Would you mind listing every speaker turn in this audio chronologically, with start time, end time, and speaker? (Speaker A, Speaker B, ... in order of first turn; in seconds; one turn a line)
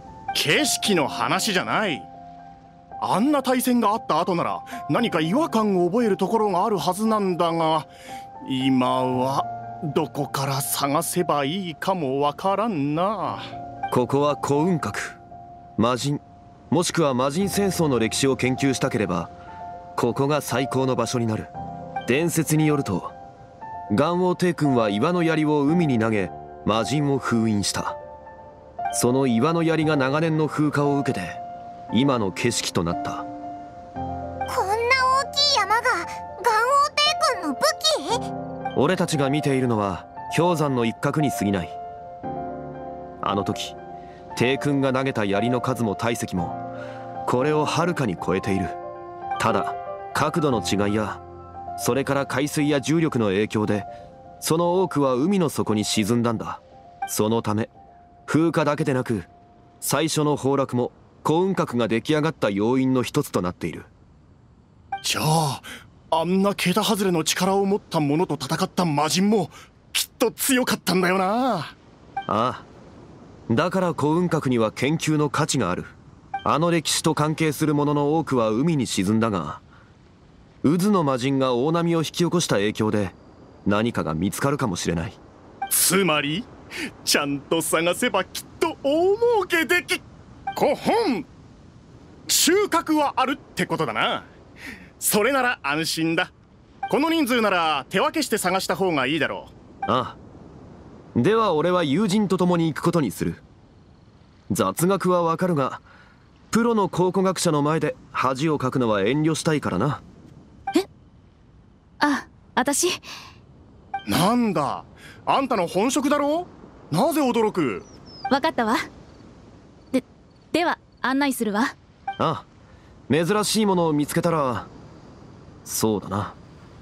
Speaker A: 0.3-2.1
Speaker A: 3.0-7.9
Speaker A: 8.4-13.4
Speaker B: 13.9-15.2
Speaker B: 15.8-19.3
Speaker B: 19.9-21.5
Speaker B: 22.1-23.1
Speaker B: 23.9-28.0
Speaker B: 28.9-31.4
Speaker B: 31.9-33.3
Speaker C: 34.5-38.2
Speaker B: 38.7-41.8
Speaker B: 43.2-43.8
Speaker B: 44.4-46.6
Speaker B: 47.2-48.8
Speaker B: 49.4-51.2
Speaker B: 51.8-53.9
Speaker B: 54.4-57.7
Speaker B: 58.3-59.3
Speaker B: 59.8-63.9
Speaker A: 65.0-71.7
Speaker B: 72.3-72.7
Speaker B: 73.5-75.9
Speaker B: 76.4-79.6
Speaker B: 80.6-85.2
Speaker A: 85.7-86.5
Speaker A: 87.0-90.0
Speaker A: 90.5-91.3
Speaker A: 92.3-94.3
Speaker A: 95.0-96.3
Speaker A: 96.9-99.5
Speaker B: 99.9-100.2
Speaker B: 101.1-103.4
Speaker B: 104.5-105.8
Speaker B: 106.5-110.0
Speaker D: 112.0-113.0
Speaker A: 114.1-117.9
Speaker D: 118.3-118.8
Speaker D: 119.9-121.8
Speaker B: 122.2-122.5
Speaker B: 123.1-124.7
Speaker B: 125.7-126.4